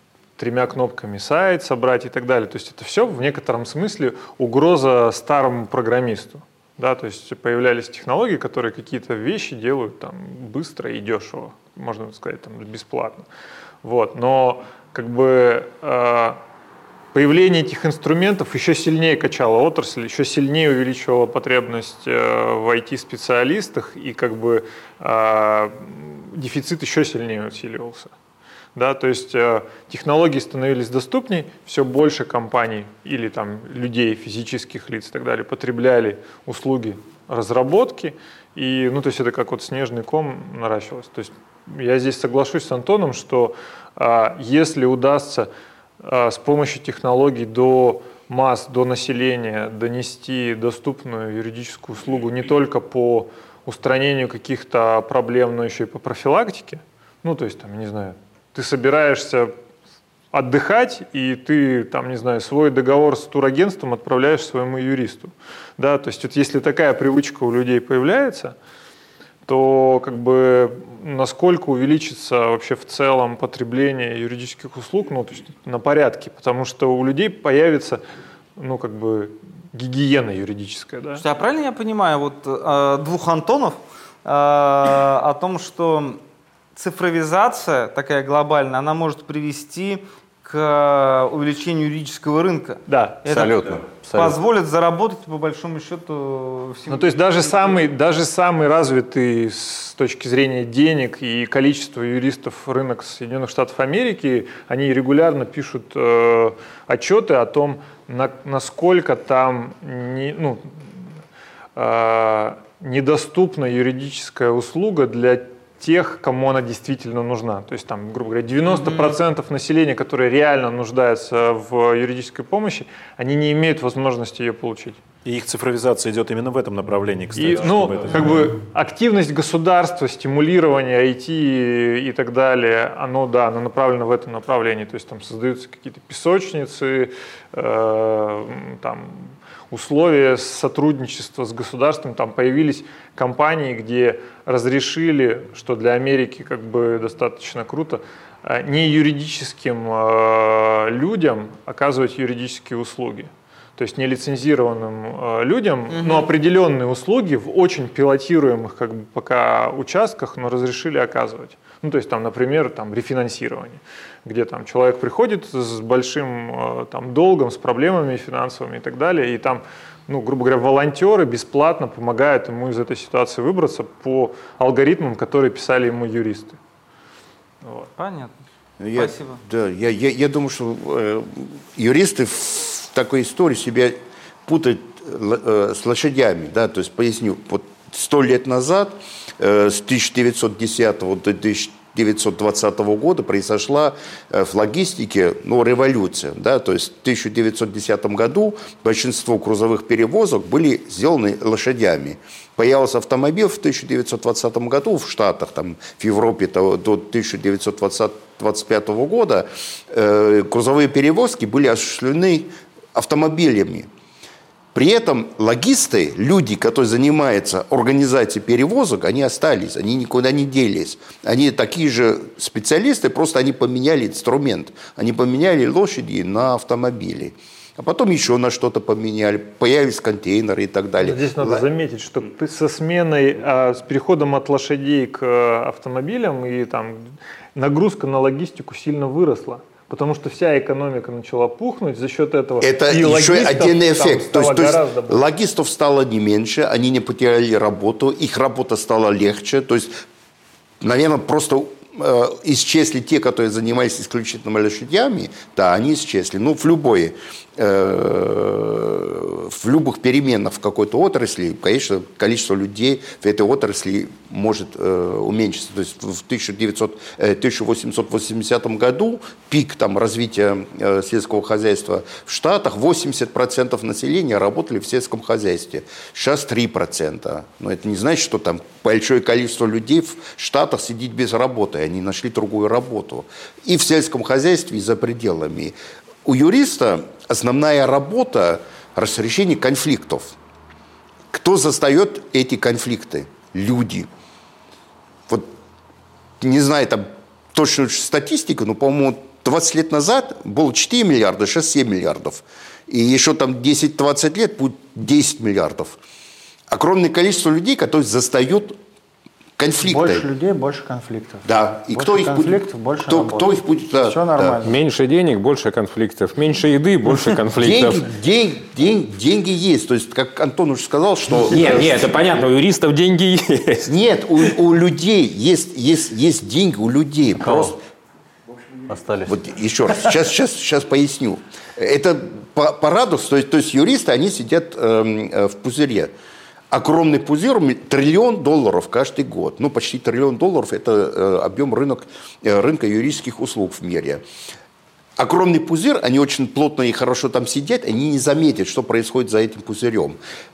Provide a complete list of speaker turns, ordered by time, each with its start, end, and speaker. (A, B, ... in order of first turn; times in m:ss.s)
0:00.4-0:13.3 A
0:13.8-0:16.4 A
0:17.1-0:28.1 A
0:28.8-0:45.5 A
0:46.0-0:59.5 A
1:00.3-1:08.6 A
1:09.5-1:18.0 A
1:18.6-1:21.2 A
1:21.2-1:26.2 B
1:26.8-1:37.8 B
1:32.9-1:33.2 A
1:33.3-1:34.4 C
1:36.9-1:50.7 A
1:51.8-2:05.0 A
1:58.7-1:59.2 B
2:05.2-2:08.5 D
2:07.4-2:56.6 A
2:35.9-2:36.3 B
2:57.6-2:57.9 A
2:58.0-2:58.3 B
2:58.8-3:33.9 E
2:59.0-2:59.4 B
3:34.7-3:51.6 E
3:51.0-4:05.2 A
4:02.6-4:10.0 E
4:10.8-4:50.4 E
4:51.3-4:54.1 E
4:56.4-5:06.0 E
5:06.7-5:08.8 E
5:09.6-5:10.2 E
5:09.8-5:14.7 F
5:11.5-5:14.6 E
5:14.6-5:18.1 G
5:17.6-5:22.2 E
5:21.3-5:23.9 G
5:23.8-5:27.8 E
5:27.4-5:27.8 C
5:28.9-5:29.4 C
5:29.3-5:36.1 E
5:36.7-5:44.2 E
5:45.2-5:50.2 E